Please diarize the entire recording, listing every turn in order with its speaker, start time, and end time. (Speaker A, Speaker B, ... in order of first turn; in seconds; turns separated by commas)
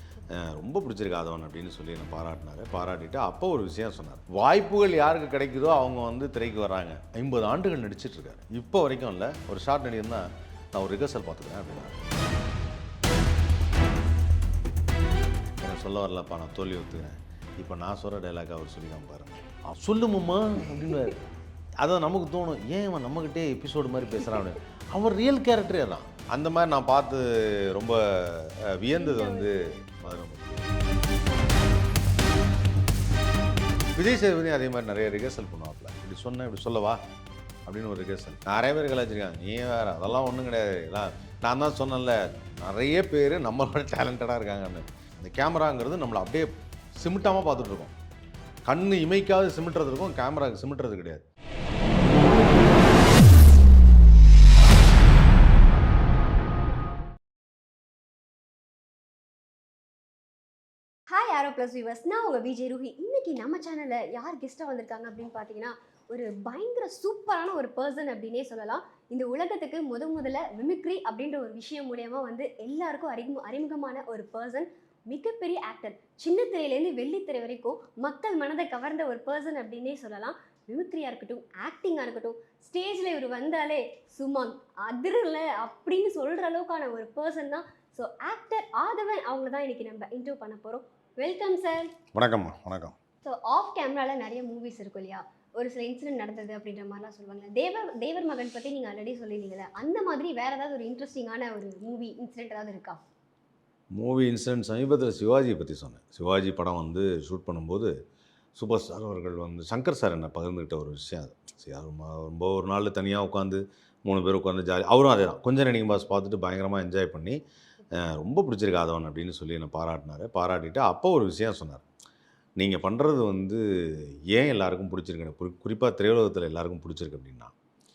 Speaker A: 0.3-12.0, Speaker A: 15.6-21.2, Speaker A: 21.8-30.6, Speaker B: 28.9-29.8, Speaker A: 34.0-37.0, Speaker A: 37.7-47.9, Speaker A: 48.6-51.2, Speaker B: 61.1-91.9, Speaker A: 92.1-92.9, Speaker B: 93.2-103.0, Speaker A: 103.9-107.9, Speaker A: 108.5-117.4, Speaker A: 117.9-121.8, Speaker A: 122.6-127.5